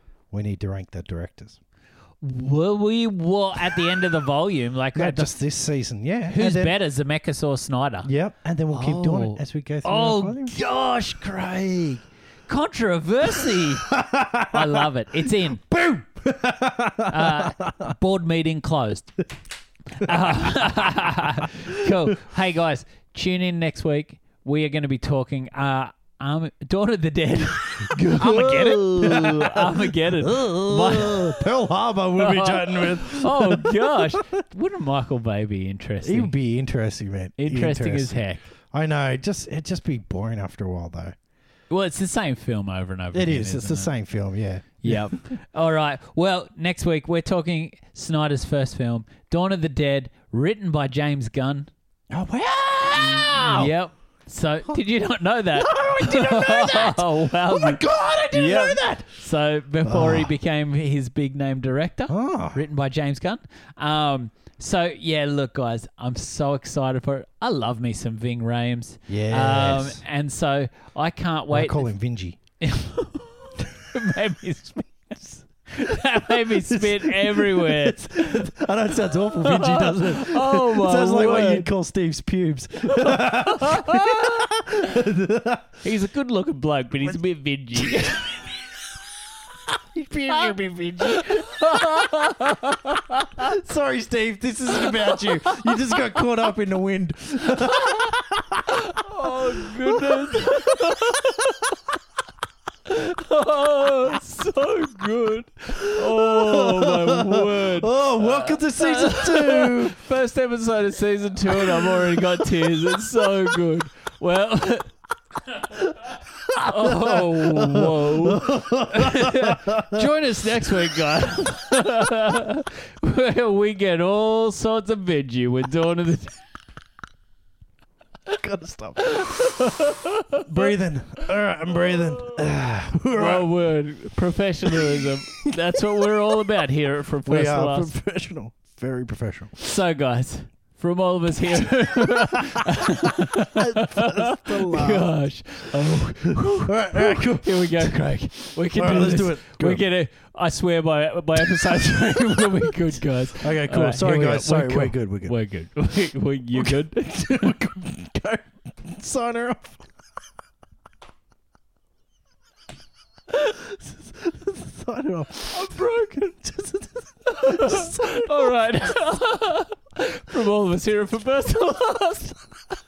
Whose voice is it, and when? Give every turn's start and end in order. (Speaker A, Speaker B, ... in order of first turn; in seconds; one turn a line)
Speaker A: 0.3-1.6
Speaker B: 2.2-5.3
Speaker A: 4.9-6.8
Speaker B: 6.3-8.1
Speaker A: 8.0-10.5
Speaker B: 8.7-13.9
Speaker A: 13.4-17.9
Speaker B: 14.5-15.6
Speaker B: 17.1-19.2
Speaker B: 19.9-31.4
Speaker A: 20.0-20.4
Speaker A: 21.4-21.9
Speaker A: 27.9-34.4
Speaker B: 32.2-36.3
Speaker A: 36.0-38.2
Speaker B: 37.4-38.5
Speaker A: 38.7-41.1
Speaker B: 41.7-43.9
Speaker A: 43.1-45.2
Speaker B: 44.8-51.7
Speaker A: 52.1-53.7
Speaker B: 53.0-71.9
Speaker A: 55.5-59.1
Speaker A: 59.8-60.3
Speaker A: 62.1-62.6
Speaker A: 69.1-70.0
Speaker A: 71.5-72.4
Speaker B: 72.6-78.5
Speaker A: 76.3-85.8
Speaker B: 79.2-81.7
Speaker B: 82.9-84.7
Speaker B: 85.8-88.3
Speaker A: 87.8-88.6
Speaker A: 89.7-92.2
Speaker B: 90.3-93.5
Speaker A: 93.4-101.6
Speaker B: 94.8-95.9
Speaker B: 97.6-98.1
Speaker B: 98.7-101.3
Speaker B: 102.8-114.9
Speaker A: 105.8-110.0
Speaker A: 111.5-113.6
Speaker A: 115.8-120.1
Speaker B: 116.5-126.3
Speaker A: 120.6-121.2
Speaker A: 128.3-129.7
Speaker B: 129.0-130.7
Speaker A: 130.4-133.5
Speaker B: 133.1-137.9
Speaker A: 134.7-135.1
Speaker A: 137.2-139.6
Speaker B: 139.6-157.6
Speaker A: 142.4-145.1
Speaker A: 145.7-148.0
Speaker A: 148.6-149.8
Speaker A: 151.5-152.8
Speaker A: 153.4-155.3
Speaker A: 156.5-159.8
Speaker A: 163.3-168.5
Speaker B: 165.5-166.0
Speaker B: 167.3-172.3